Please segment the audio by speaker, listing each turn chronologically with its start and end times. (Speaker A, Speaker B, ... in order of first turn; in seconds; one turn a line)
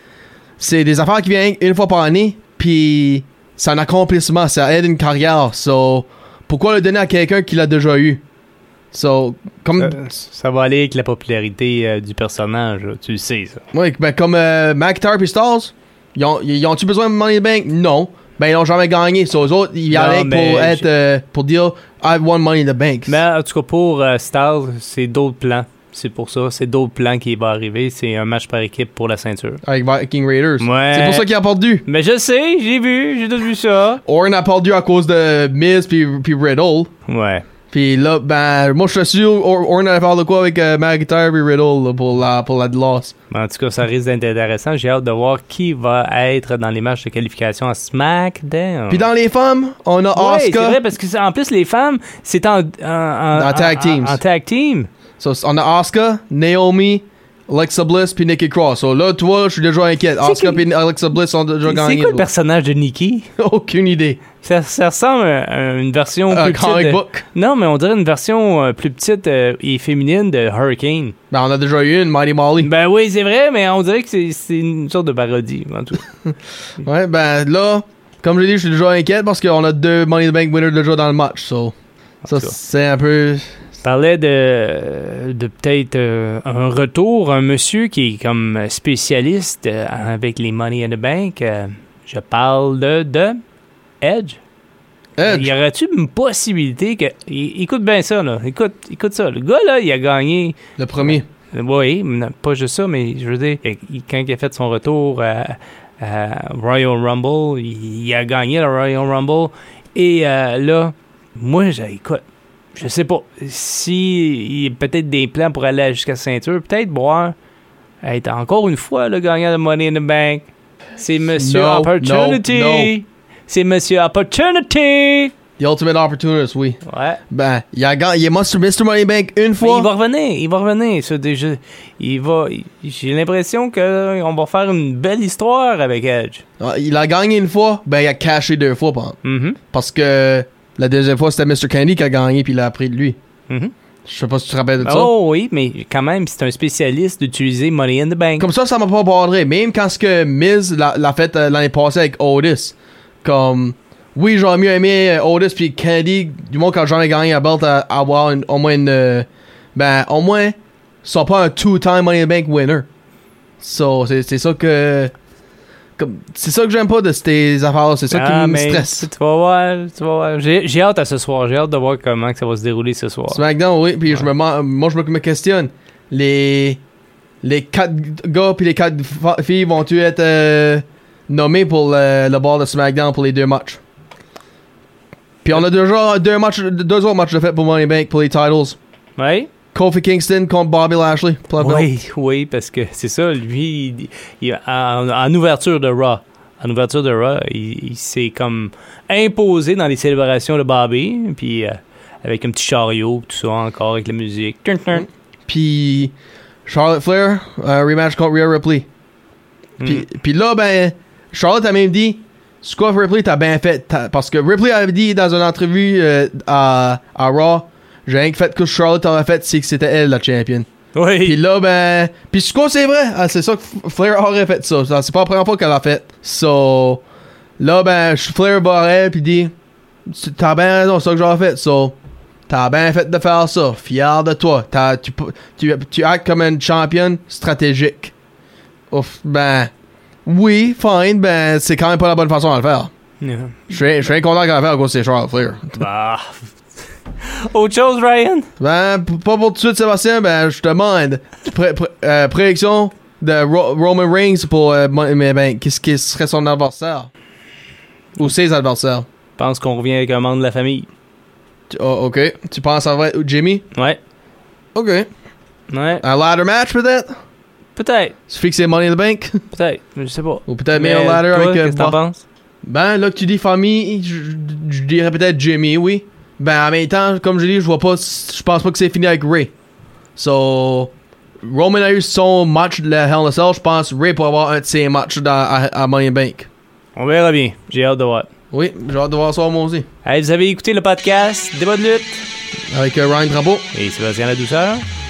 Speaker A: 0.6-8.2
Speaker A: 8.9-9.9
Speaker B: 9.8-13.6
Speaker A: 13.7-23.2
Speaker B: 19.9-20.9
Speaker B: 23.1-29.6
Speaker A: 29.6-31.8
Speaker B: 30.6-31.3
Speaker B: 31.8-34.0
Speaker A: 34.0-36.9
Speaker B: 37.1-37.4
Speaker A: 37.7-43.1
Speaker B: 43.3-49.0
Speaker A: 48.9-50.8
Speaker B: 50.1-54.9
Speaker A: 53.3-54.2
Speaker A: 55.2-62.2
Speaker B: 60.2-60.6
Speaker B: 61.6-63.3
Speaker A: 63.4-64.2
Speaker B: 64.4-71.1
Speaker A: 66.3-67.2
Speaker A: 71.3-72.7
Speaker B: 72.6-76.0
Speaker A: 76.8-81.7
Speaker B: 82.2-82.5
Speaker A: 82.3-83.5
Speaker B: 83.8-93.4
Speaker B: 94.0-94.4
Speaker A: 95.2-95.5
Speaker B: 95.2-112.2
Speaker A: 100.8-101.2
Speaker B: 112.7-117.3
Speaker B: 118.0-125.3
Speaker A: 121.3-122.9
Speaker A: 125.6-129.9
Speaker B: 126.8-127.2
Speaker B: 129.6-136.4
Speaker A: 136.6-139.2
Speaker B: 139.2-139.6
Speaker A: 139.7-143.2
Speaker A: 144.1-145.1
Speaker B: 144.8-148.5
Speaker A: 148.4-162.9
Speaker A: 163.6-165.1
Speaker A: 166.0-169.1
Speaker B: 168.1-173.4
Speaker A: 173.3-176.8
Speaker A: 177.4-183.8
Speaker A: 185.4-188.8
Speaker B: 189.2-189.5
Speaker A: 189.7-191.9
Speaker B: 191.6-205.1
Speaker A: 205.5-206.1
Speaker A: 206.7-208.9
Speaker A: 209.8-220.7
Speaker B: 220.9-221.4
Speaker A: 221.2-227.0
Speaker A: 227.6-229.5
Speaker A: 230.1-231.9
Speaker A: 232.5-238.1
Speaker A: 238.9-239.7
Speaker A: 240.2-242.9
Speaker B: 243.2-243.6
Speaker A: 243.7-245.8
Speaker B: 245.8-246.6
Speaker B: 247.2-248.5
Speaker A: 248.6-257.1
Speaker A: 258.1-259.1
Speaker B: 259.4-260.9
Speaker A: 261.7-263.6
Speaker A: 264.7-265.1
Speaker B: 265.7-266.0
Speaker A: 266.0-267.1
Speaker B: 267.8-268.1
Speaker A: 268.3-269.4
Speaker B: 269.5-272.2
Speaker A: 270.5-272.0
Speaker A: 272.6-279.5
Speaker A: 280.1-286.5
Speaker B: 286.9-288.3
Speaker A: 288.5-289.9
Speaker B: 290.0-292.2
Speaker A: 292.7-293.6
Speaker B: 293.7-294.8